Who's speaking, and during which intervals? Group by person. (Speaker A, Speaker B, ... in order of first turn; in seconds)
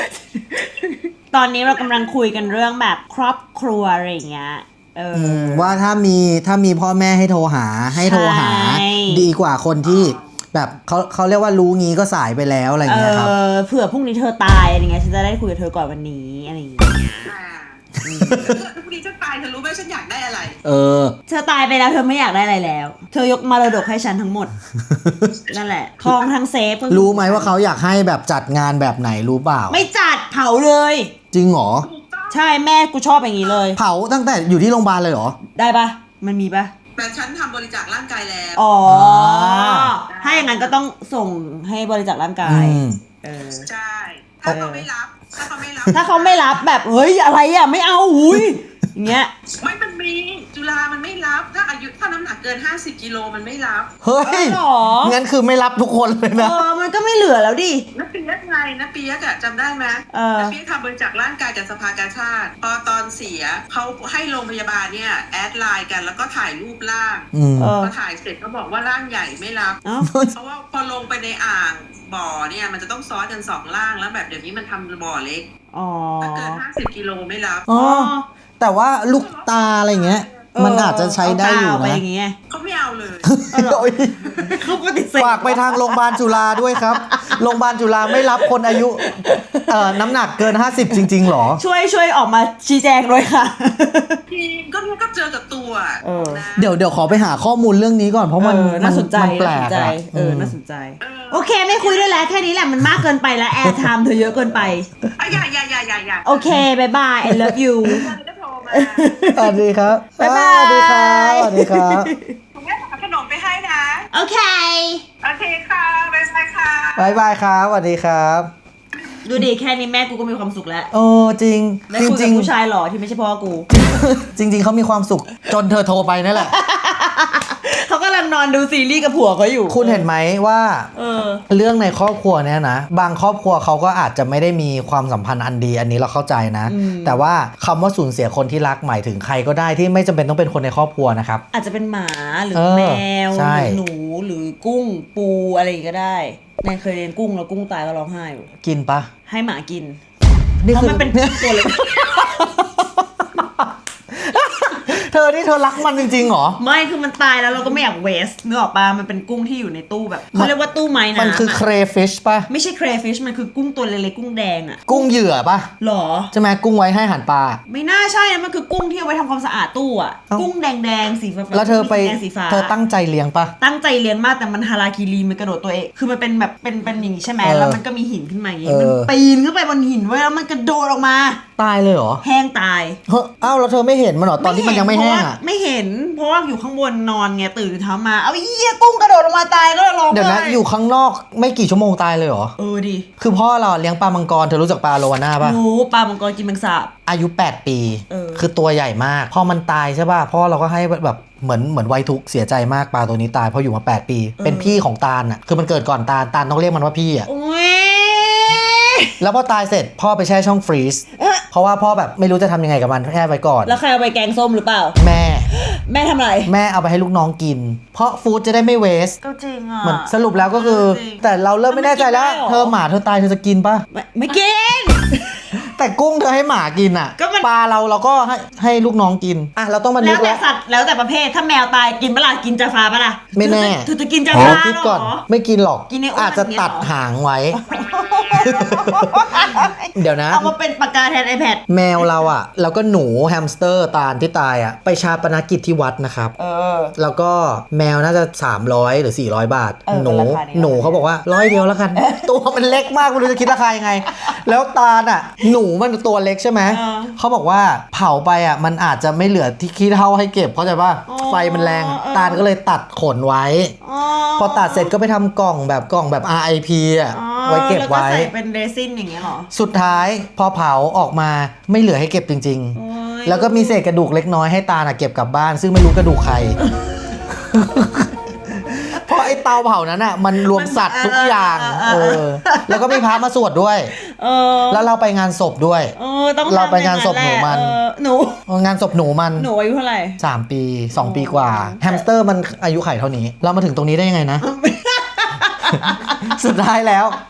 Speaker A: 0.3-5.8, 7.9-9.3, 12.9-17.3, 18.0-18.6, 21.3-24.5, 25.5-27.6, 29.7-31.1, 32.3-33.8, 35.5-36.7, 38.6-43.7, 44.5-44.9, 45.9-49.3, 54.2-55.2, 56.3-57.9, 60.1-60.6, 67.6-67.9, 69.8-70.1, 75.7-76.6, 77.7-78.3, 80.5-82.4, 83.5-87.5, 88.1-94.2, 96.0-96.5, 98.4-104.9, 106.2-108.2, 108.7-109.6, 110.2-112.4, 114.1-115.1, 119.2-120.9, 121.9-123.7, 126.3-130.1, 131.0-131.4, 136.7-137.2, 141.5-148.5, 149.3-150.0, 150.7-152.4, 156.6-161.6, 162.5-165.1, 165.8-166.3, 167.7-172.7, 173.6-181.4, 182.2-183.0, 184.4-190.6, 192.6-193.1, 195.4-196.9, 198.1-198.5, 204.4-204.8, 207.3-209.2, 211.2-211.5, 213.7-215.0, 215.5-216.5, 219.2-222.8, 223.9-225.5, 227.2-227.5, 230.0-235.2, 235.9-236.9, 237.6-242.3, 246.4-246.9, 249.9-251.0, 251.9-253.3, 254.1-254.3, 256.6-257.2, 261.1-262.4, 263.8-264.9, 267.1-269.5, 272.8-273.9, 278.8-279.2, 280.5-283.2, 283.9-284.9, 285.9-288.4, 289.4-290.2, 291.0-292.0, 294.4-296.3
Speaker B: 1.7-2.4, 9.8-10.2, 17.2-20.6, 31.8-32.4, 37.0-38.6, 40.1-40.8, 43.6-46.6, 49.6-53.9, 57.9-67.3, 67.8-69.8, 70.3-75.5, 76.2-77.7, 79.1-80.5, 82.5-83.3, 94.3-96.8, 101.0-102.3, 105.2-106.4, 107.9-109.3, 112.5-114.1, 115.2-117.2
Speaker C: 5.1-13.3, 18.1-18.6, 20.6-21.1, 24.8-25.5, 26.9-29.9, 31.3-31.9, 33.8-35.4, 38.9-40.0, 42.4-43.0, 54.0-56.6, 67.3-67.8, 70.0-70.3, 77.7-82.0, 83.2-84.5, 85.2-91.6, 96.6-100.5, 103.6-103.9, 105.0-105.4, 107.2-107.6, 109.3-112.1, 117.0-118.5, 120.9-122.5, 123.7-126.5, 129.7-130.9, 131.5-141.4, 142.6-143.8, 148.6-149.1, 150.6-156.6, 161.1-162.5, 164.9-165.7, 166.3-167.6, 171.5-173.5, 177.4-177.8, 178.7-179.1, 181.6-182.2, 183.1-185.4, 190.1-192.5, 193.2-195.6, 197.1-207.3, 209.2-213.8, 215.0-215.5, 216.5-219.2, 219.8-223.9, 225.5-230.4, 233.3-237.6, 238.4-240.5, 241.7-246.3, 247.0-263.8, 264.4-268.3, 269.5-276.6, 277.5-278.1, 278.7-283.9, 284.7-285.9, 286.4-287.8, 288.5-289.5, 290.2-294.5, 295.7-297.2